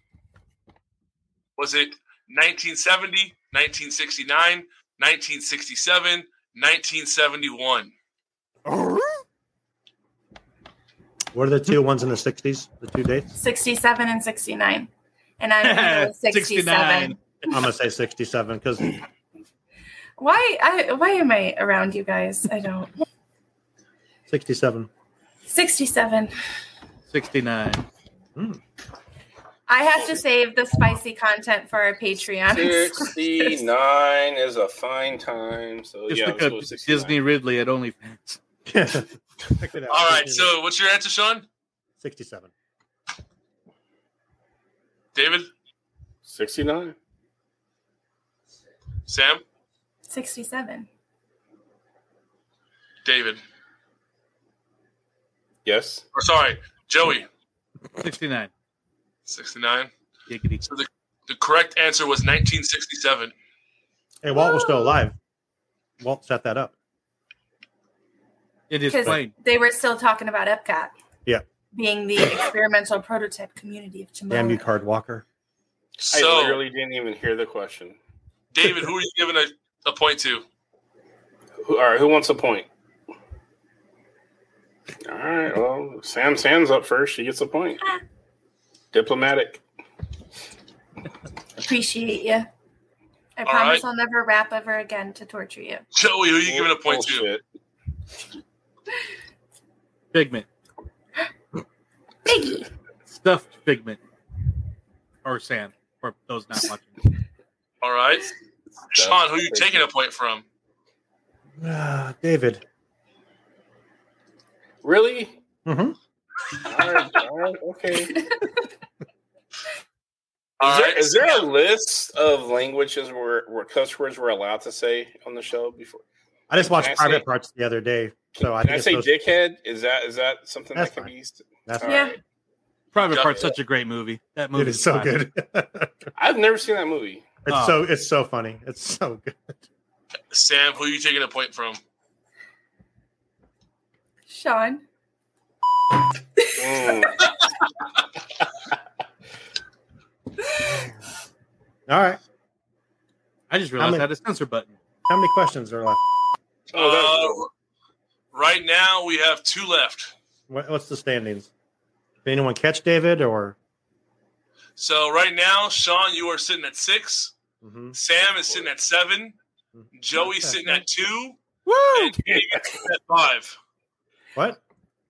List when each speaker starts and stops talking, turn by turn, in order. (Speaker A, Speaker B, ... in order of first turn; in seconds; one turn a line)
Speaker A: 1.6-7.9
Speaker B: 8.7-9.0
Speaker C: 11.3-13.3
Speaker D: 13.3-14.9
Speaker D: 15.4-17.2
Speaker B: 15.6-17.2
Speaker C: 17.5-18.9
Speaker D: 20.2-22.9
Speaker C: 24.3-24.9
Speaker D: 25.5-26.3
Speaker B: 27.1-27.8
Speaker D: 29.7-33.6
Speaker E: 32.5-37.2
Speaker B: 36.1-38.4
Speaker C: 38.6-40.5
Speaker A: 39.9-41.4
Speaker C: 42.0-42.5
Speaker A: 45.1-45.5
Speaker E: 46.2-46.9
Speaker A: 49.1-49.4
Speaker D: 50.1-50.9
Speaker A: 53.0-53.4
Speaker E: 55.6-56.0
Speaker A: 56.1-57.3
Speaker B: 58.0-58.5
Speaker A: 59.3-59.9
Speaker B: 60.3-60.6
Speaker A: 60.6-63.3
Speaker C: 64.2-65.1
Speaker D: 64.4-64.9
Speaker C: 66.0-66.7
Speaker B: 68.7-69.3
Speaker D: 68.9-70.9
Speaker D: 71.7-74.6
Speaker C: 74.3-75.2
Speaker E: 76.0-78.0
Speaker A: 76.1-76.6
Speaker A: 78.5-80.4
Speaker E: 81.6-82.7
Speaker E: 85.0-87.8
Speaker E: 88.9-89.6
Speaker D: 91.6-92.5
Speaker D: 93.4-95.8
Speaker A: 93.4-93.8
Speaker A: 95.9-97.2
Speaker E: 96.4-97.4
Speaker B: 100.1-100.5
Speaker D: 102.2-102.7
Speaker B: 103.1-104.0
Speaker B: 105.2-107.0
Speaker A: 107.8-108.3
Speaker A: 108.9-110.4
Speaker E: 108.9-109.9
Speaker C: 111.6-112.6
Speaker E: 114.8-115.4
Speaker C: 115.7-116.0
Speaker E: 116.6-118.2
Speaker D: 118.3-118.7
Speaker A: 120.6-121.5
Speaker E: 120.6-127.2
Speaker C: 126.5-129.1
Speaker E: 128.4-132.2
Speaker C: 130.7-131.1
Speaker C: 131.7-132.1
Speaker D: 131.8-132.2
Speaker B: 132.9-135.2
Speaker A: 133.1-133.5
Speaker C: 134.5-136.1
Speaker E: 136.2-137.3
Speaker C: 137.4-139.6
Speaker B: 137.5-137.8
Speaker A: 140.3-141.8
Speaker D: 144.3-144.8
Speaker D: 146.4-146.8
Speaker E: 146.6-147.3
Speaker C: 150.6-150.9
Speaker C: 151.9-152.2
Speaker B: 153.5-154.7
Speaker C: 153.8-154.1
Speaker C: 155.1-156.0
Speaker E: 156.7-157.4
Speaker A: 156.7-157.5
Speaker A: 158.3-160.1
Speaker C: 160.5-161.5
Speaker C: 162.2-163.6
Speaker A: 164.8-167.3
Speaker C: 167.6-167.9
Speaker A: 167.9-169.3
Speaker C: 169.7-170.8
Speaker A: 169.9-171.4
Speaker A: 171.9-173.6
Speaker C: 174.3-174.6